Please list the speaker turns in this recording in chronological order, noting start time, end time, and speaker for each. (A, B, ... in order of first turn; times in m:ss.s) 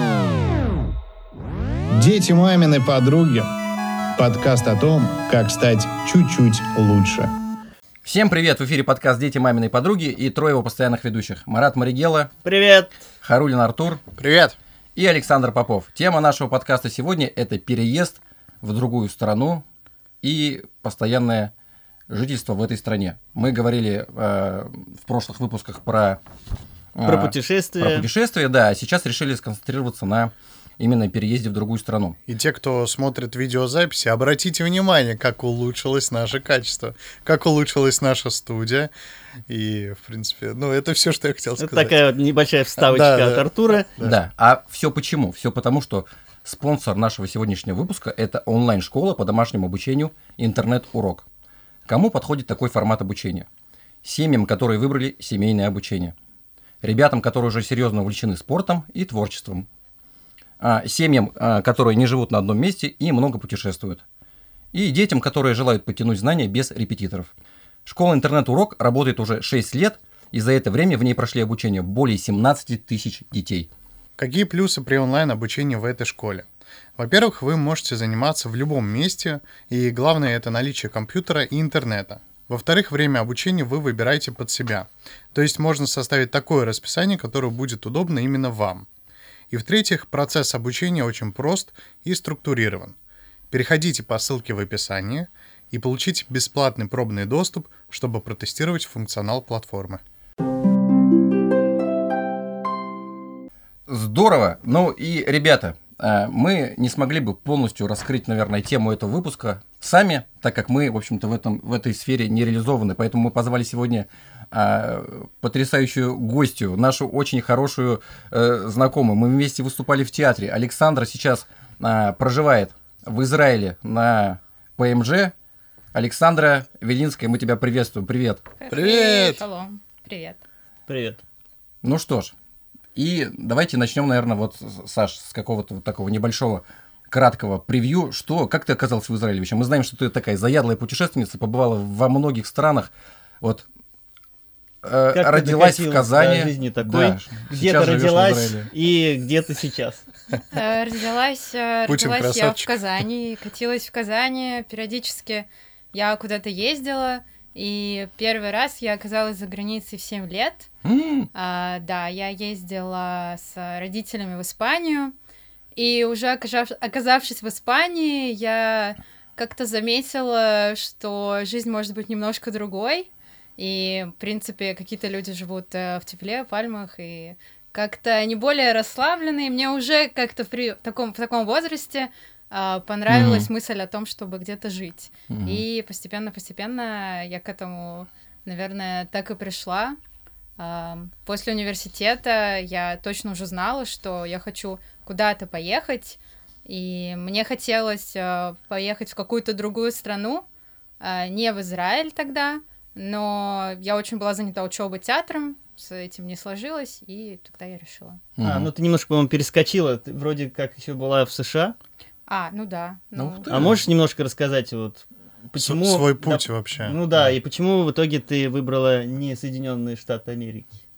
0:01.9-0:03.5 A
0:04.2-0:07.3 A
0:08.0-0:12.3 B
0:12.4-0:12.9 C
0:13.2-0:14.0 B
0:14.2-0:14.5 D
0:15.0-0:19.6 B
0:20.2-0:21.5 B
0:22.1-0:26.2 B
0:27.0-0:32.2 B
0:27.0-0:28.1 C
0:32.3-0:38.9 D
0:39.5-0:42.0 D
0:41.6-0:43.9 C
0:42.8-0:44.2 D
0:44.0-0:51.2 B
0:51.9-0:53.5 B
0:54.0-0:56.1 B
0:56.8-0:59.6 B
1:00.6-1:04.0 B
1:04.7-1:07.3 B
1:07.8-1:13.7 B
1:14.2-1:16.4 D
1:17.0-1:28.9 D
1:29.5-1:32.9 D
1:33.5-1:40.0 D
1:43.9-2:05.3 B
2:05.9-2:08.4 B
2:08.6-2:10.4 E
2:08.7-2:09.4 D
2:10.9-2:11.2 C
2:11.8-2:12.3 B
2:12.9-2:22.9 B
2:24.8-2:28.7 B
2:25.1-2:30.0 C
2:30.5-2:40.7 E
2:31.9-2:32.7 D
2:40.8-2:41.3 B
2:41.3-2:45.1 E
2:45.8-2:53.1 E
2:53.6-3:10.0 E
3:03.1-3:03.5 B
3:05.3-3:05.6 B
3:10.6-3:20.4 E
3:21.0-3:28.2 E
3:28.4-3:28.7 B
3:28.4-3:31.7 C
3:32.3-3:33.5 E
3:33.1-3:33.8 B
3:33.5-3:40.7 C
3:35.6-3:37.0 D